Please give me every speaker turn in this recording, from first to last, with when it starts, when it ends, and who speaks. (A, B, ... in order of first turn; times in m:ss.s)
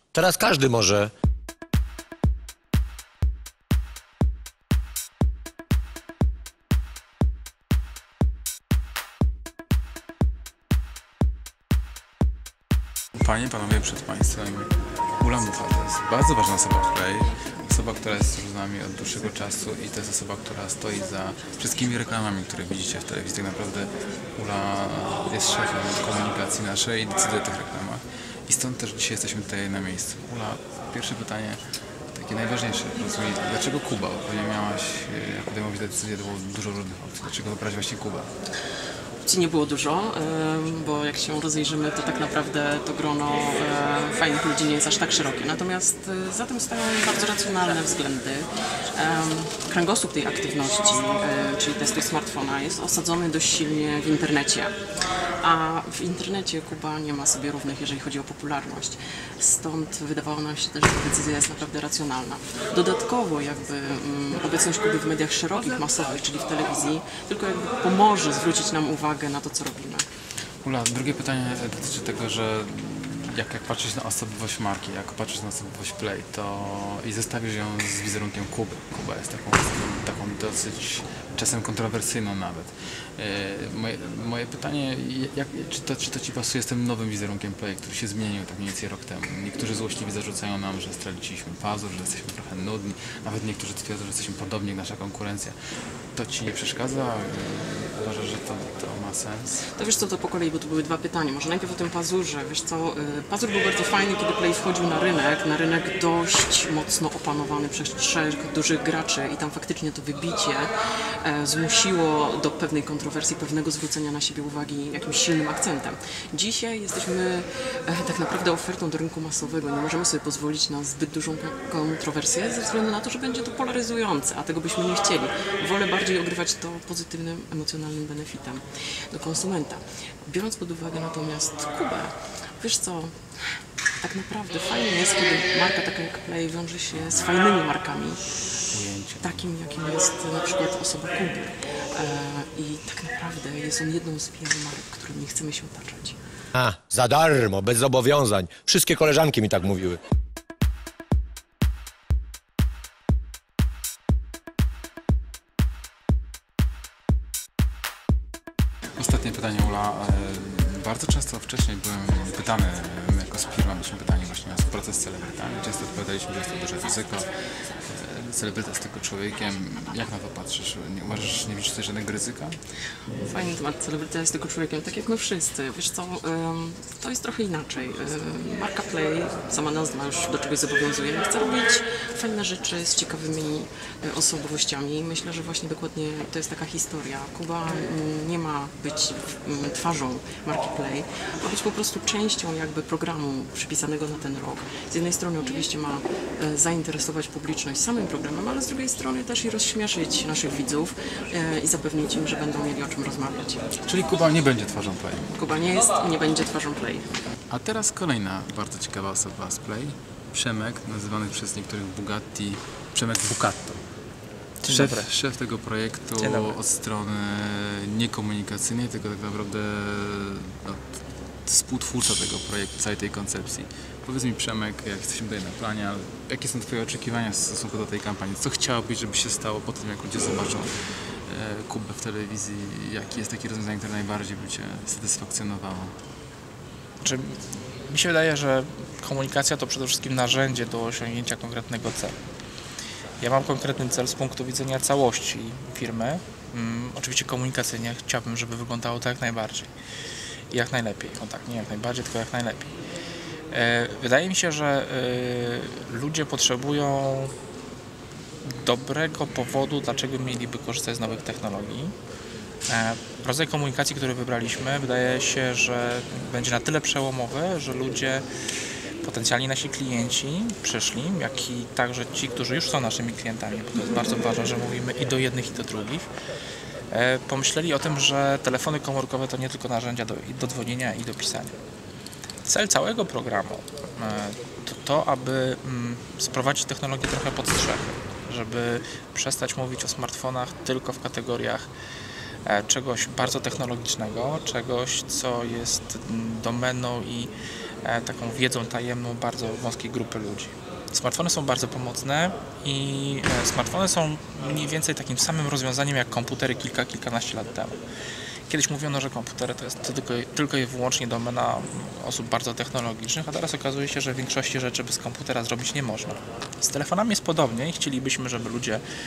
0:00.1-0:01.1 A
0:13.2-0:31.6 B
0:32.1-0:38.3 B
0:39.2-0:54.8 C
0:55.4-1:10.1 C
1:10.6-1:35.6 B
1:36.1-1:39.6 B
1:39.8-1:50.7 C
1:51.2-2:13.2 C
2:14.0-2:18.2 C
2:18.7-2:19.5 B
2:19.2-2:26.2 C
2:26.6-2:30.0 A
2:39.0-2:47.3 B
2:47.8-2:52.6 B
2:53.2-3:23.7 C
3:23.8-3:25.3 B
3:25.3-3:27.1 C
3:27.5-3:33.8 B
3:34.6-3:35.1 D
3:34.6-3:40.9 B
3:36.2-3:36.6 D
3:41.4-3:50.7 B
3:51.3-3:56.0 B
3:57.0-3:57.4 D
3:57.9-4:02.2 D
4:03.2-4:09.7 D
4:10.5-4:12.8 D
4:13.5-4:17.3 D
4:18.4-4:22.0 D
4:22.7-4:28.2 D
4:29.0-4:36.1 D
4:36.9-4:41.6 D
4:42.4-4:51.7 D
4:52.5-4:57.3 D
4:57.8-5:07.8 D
5:08.5-5:18.8 D